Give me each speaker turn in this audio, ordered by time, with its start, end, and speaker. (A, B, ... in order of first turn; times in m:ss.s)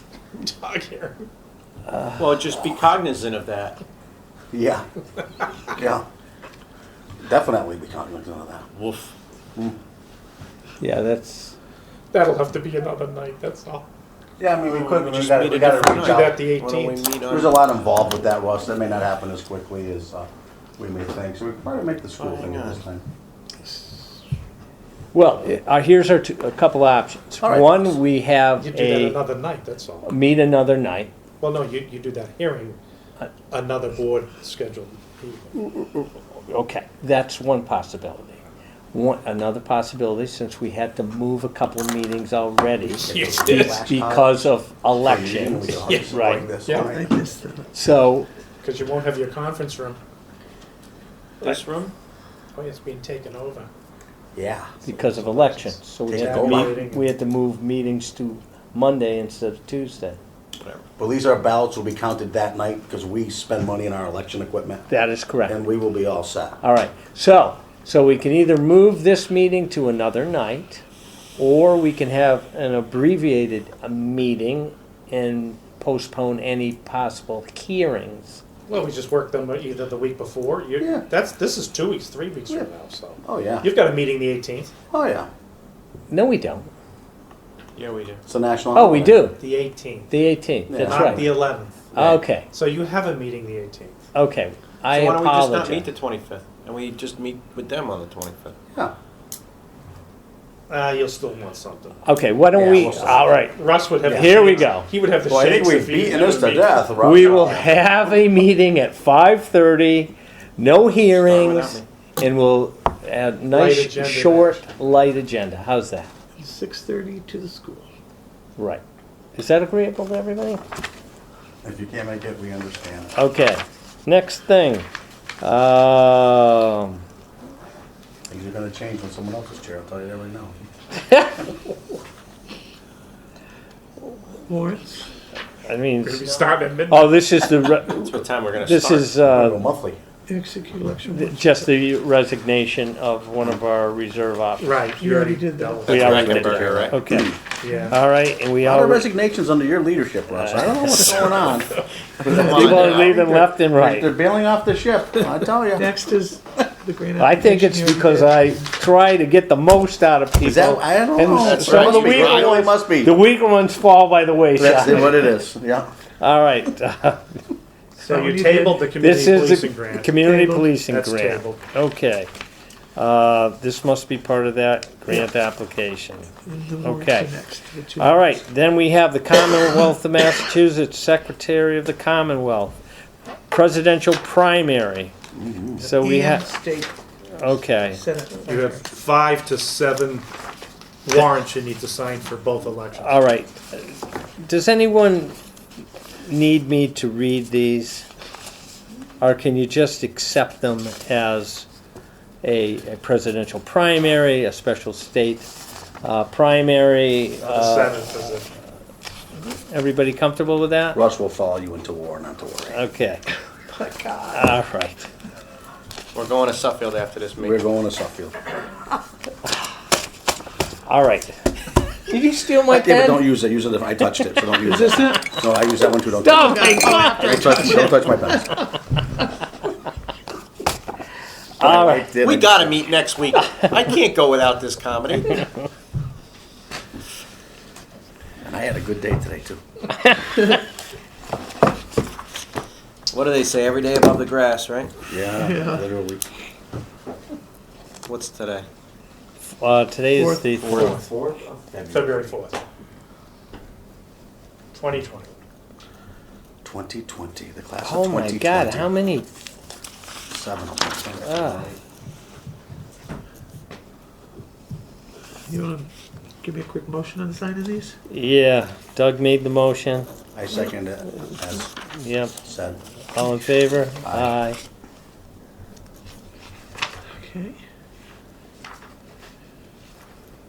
0:00.4-0:01.2 A
0:02.2-0:03.8 B
0:04.5-0:04.9 C
0:05.7-0:06.0 C
0:07.2-0:08.7 C
0:10.8-0:11.6 D
0:12.1-0:13.9 A
0:14.4-0:16.4 C
0:14.7-0:17.6 B
0:16.0-0:17.1 A
0:17.3-0:23.0 C
0:22.2-0:22.8 B
0:25.1-0:29.2 D
0:27.4-0:28.0 C
0:28.6-0:30.1 A
0:30.0-0:31.1 D
0:31.4-0:32.8 A
0:33.5-0:35.6 A
0:35.6-0:38.4 D
0:38.9-0:46.5 D
0:43.0-0:43.8 A
0:43.0-0:47.1 C
0:45.9-0:47.0 A
0:46.7-0:47.7 E
0:47.7-0:48.3 D
0:48.6-0:50.0 A
0:51.4-0:51.9 B
0:52.5-0:53.7 A
0:54.4-0:54.8 C
0:54.9-0:57.1 A
0:54.9-1:00.2 D
0:56.1-0:56.8 C
1:01.0-1:04.9 C
1:04.9-1:05.6 D
1:05.5-1:06.6 C
1:06.6-1:10.8 D
1:11.4-1:18.4 D
1:18.7-1:24.7 A
1:20.8-1:21.1 C
1:23.2-1:23.7 C
1:24.9-1:25.3 C
1:26.1-1:26.7 D
1:27.8-1:28.2 B
1:28.3-1:29.2 C
1:28.7-1:29.4 D
1:29.4-1:30.1 A
1:30.1-1:31.3 D
1:30.7-1:31.4 C
1:30.8-1:31.9 A
1:31.9-1:32.2 C
1:32.0-1:32.5 D
1:32.5-1:34.0 A
1:34.1-1:35.9 D
1:34.9-1:38.6 B
1:40.7-1:42.0 A
1:42.0-1:44.9 D
1:42.5-1:43.3 C
1:43.5-1:46.8 A
1:44.0-1:44.3 C
1:45.3-1:47.7 C
1:47.0-1:56.1 D
1:51.2-1:51.9 B
1:53.5-1:54.6 A
1:56.4-1:57.9 E
1:58.6-1:58.8 D
1:59.4-2:00.6 D
2:01.6-2:03.1 C
2:03.2-2:04.9 D
2:05.4-2:07.0 D
2:08.3-2:10.6 C
2:11.1-2:11.4 D
2:14.5-2:15.1 E
2:15.6-2:19.6 D
2:16.0-2:17.3 A
2:17.9-2:19.2 B
2:19.2-2:20.0 C
2:20.3-2:21.5 E
2:21.1-2:24.8 D
2:24.6-2:26.4 A
2:25.0-2:25.9 E
2:25.9-2:27.0 B
2:25.9-2:29.0 D
2:26.0-2:27.4 C
2:27.6-2:27.9 A
2:27.7-2:28.0 E
2:28.6-2:35.9 C
2:30.3-2:31.4 D
2:32.3-2:33.2 B
2:32.3-2:34.1 D
2:35.7-2:38.6 E
2:37.2-2:45.3 D
2:40.4-2:43.2 C
2:41.3-2:42.6 B
2:44.6-2:45.9 C
2:46.2-2:47.2 D
2:48.0-2:48.9 E
2:48.0-2:50.1 A
2:49.0-2:52.3 D
2:50.2-2:50.8 E
2:50.9-2:51.6 A
2:53.0-2:56.3 D
2:56.5-2:58.4 E
2:56.8-2:57.4 D
2:58.0-3:02.8 D
3:03.5-3:05.1 D
3:05.4-3:05.8 C
3:05.8-3:06.9 E
3:05.8-3:06.5 D
3:07.3-3:08.0 D
3:07.9-3:08.8 E
3:08.4-3:10.3 A
3:11.0-3:13.2 A
3:13.0-3:15.4 D
3:16.2-3:18.1 D
3:19.2-3:21.7 D
3:22.4-3:25.5 D
3:26.0-3:28.0 D
3:27.4-3:28.5 A
3:29.5-3:31.0 D
3:30.9-3:32.8 C
3:32.7-3:33.2 D
3:34.3-3:35.1 D
3:36.1-3:37.6 B
3:37.4-3:38.4 C
3:40.9-3:41.4 D
3:41.9-3:43.2 D
3:42.7-3:48.6 C
3:44.8-3:45.2 E
3:46.2-3:47.9 D
3:46.5-3:47.3 E
3:51.6-3:52.1 D
3:51.6-3:52.9 C
3:52.2-3:55.5 B
3:58.4-3:59.6 C
4:03.1-4:04.9 B
4:05.1-4:06.2 C
4:05.4-4:05.8 E
4:08.0-4:08.7 B
4:09.6-4:11.0 D
4:10.2-4:11.0 E
4:10.6-4:12.3 C
4:11.9-4:12.6 A
4:14.7-4:15.3 A
4:16.6-4:18.9 C
4:17.8-4:19.3 D
4:20.3-4:21.8 C
4:21.2-4:21.7 D
4:25.5-4:25.9 E
4:26.4-4:28.0 E
4:28.1-4:30.1 D
4:30.3-4:31.7 C
4:31.6-4:32.3 D
4:32.4-4:32.8 C
4:33.1-4:34.6 D
4:34.0-4:34.4 C
4:37.1-4:37.6 E